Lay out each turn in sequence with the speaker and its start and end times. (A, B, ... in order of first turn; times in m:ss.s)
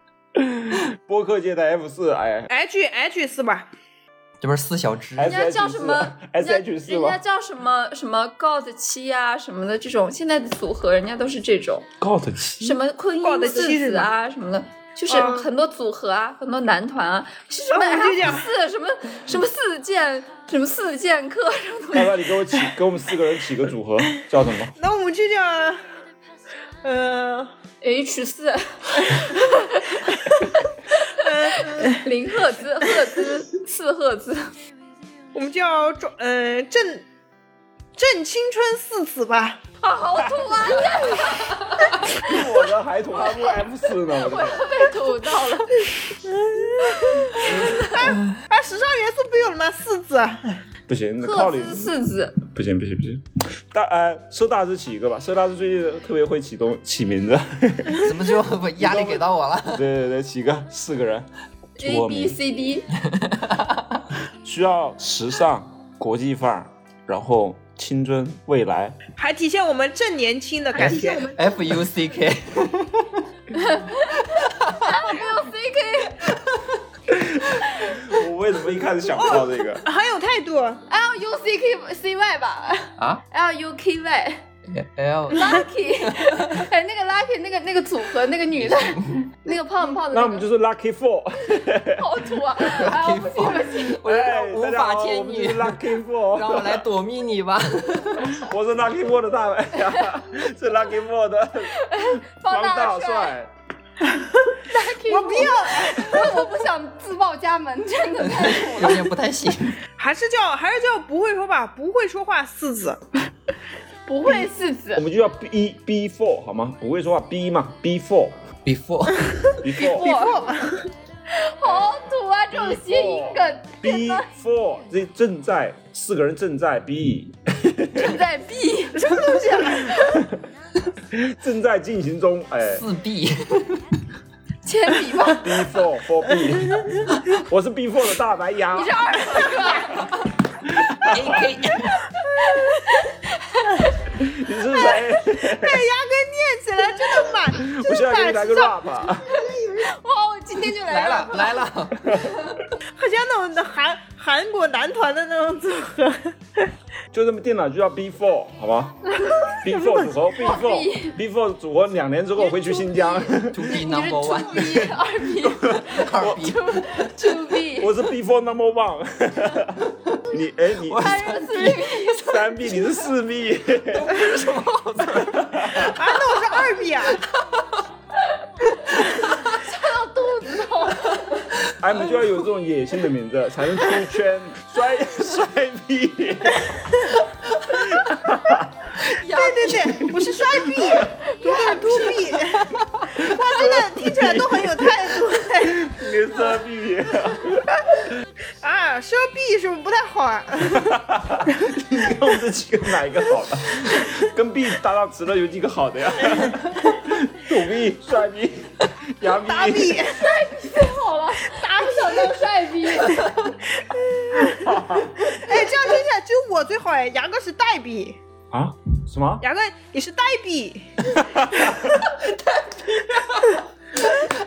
0:00.3-0:02.5 A
0:02.5-0:03.7 B
0:04.4-0:05.4 C
0:05.2-0:07.2 A
0:05.2-0:11.9 D
0:12.0-0:12.8 A
0:12.6-0:22.1 D
0:13.2-0:14.1 B
0:15.1-0:15.5 B
0:17.7-0:18.5 B
0:21.9-0:24.7 A
0:24.8-0:25.8 B
0:26.8-0:27.5 B
0:27.8-0:34.5 D
0:31.1-0:32.0 B
0:35.3-0:37.0 B
0:38.0-0:39.6 B
0:39.8-0:42.4 D
0:40.2-0:41.2 A
0:42.1-0:44.7 A
0:43.2-0:45.8 D
0:46.2-0:50.6 B
0:47.4-0:48.1 A
0:47.4-0:48.1 D
0:50.9-0:58.1 A
0:51.2-0:52.4 D
0:58.0-0:59.9 C
0:58.8-1:01.3 A
1:01.8-1:02.4 A
1:01.8-1:02.9 D
1:03.0-1:04.0 C
1:04.4-1:09.0 A
1:09.2-1:11.6 B
1:10.7-1:13.2 C
1:13.5-1:16.4 D
1:14.3-1:14.9 C
1:17.1-1:19.8 A
1:19.2-1:20.8 B
1:20.9-1:24.4 D
1:24.7-1:26.7 C
1:25.3-1:30.4 D
1:28.6-1:29.1 C
1:30.1-1:32.1 A
1:32.0-1:34.0 D
1:32.6-1:38.5 C
1:34.0-1:36.8 A
1:38.2-1:43.5 A
1:41.7-1:43.3 D
1:44.1-1:46.4 B
1:44.7-1:49.1 D
1:48.2-1:49.8 C
1:50.0-1:53.0 B
1:54.0-1:55.0 D
1:54.9-1:58.4 A
1:58.6-1:59.5 C
1:59.6-2:00.1 A
1:59.8-2:00.9 B
1:59.8-2:00.5 D
2:01.3-2:04.3 D
2:02.5-2:08.2 A
2:07.9-2:10.2 D
2:09.0-2:10.0 B
2:11.1-2:12.8 A
2:12.7-2:14.0 C
2:14.6-2:15.5 D
2:15.4-2:21.4 A
2:18.7-2:20.1 D
2:21.0-2:22.1 C
2:22.2-2:24.0 D
2:24.1-2:25.8 A
2:25.5-2:28.8 B
2:27.5-2:29.3 A
2:29.3-2:31.7 D
2:30.8-2:32.1 C
2:32.0-2:32.5 A
2:33.0-2:36.7 B
2:37.1-2:43.8 A
2:39.1-2:39.6 D
2:39.7-2:40.1 B
2:40.4-2:41.2 D
2:42.4-2:47.9 D
2:43.5-2:45.0 C
2:45.4-2:46.5 A
2:45.5-2:47.2 C
2:47.8-2:51.3 A
2:49.9-2:50.2 C
2:50.8-2:52.0 C
2:51.0-2:52.8 D
2:52.1-2:54.1 A
2:53.9-2:56.0 C
2:55.2-2:55.9 A
2:55.8-2:57.2 B
2:57.1-2:57.8 C
2:58.9-2:59.6 C
2:59.4-3:01.4 D
3:01.6-3:08.9 A
3:09.0-3:10.0 C
3:09.2-3:15.8 B
3:09.8-3:11.1 A
3:11.3-3:12.2 D
3:12.7-3:13.1 C
3:13.1-3:17.9 A
3:18.6-3:21.0 B
3:20.7-3:30.0 A
3:29.4-3:30.2 B
3:30.1-3:33.5 D
3:31.5-3:32.4 B
3:33.3-3:38.2 B
3:34.6-3:35.2 A
3:38.5-3:39.4 A
3:39.4-3:41.1 B
3:41.3-3:42.1 A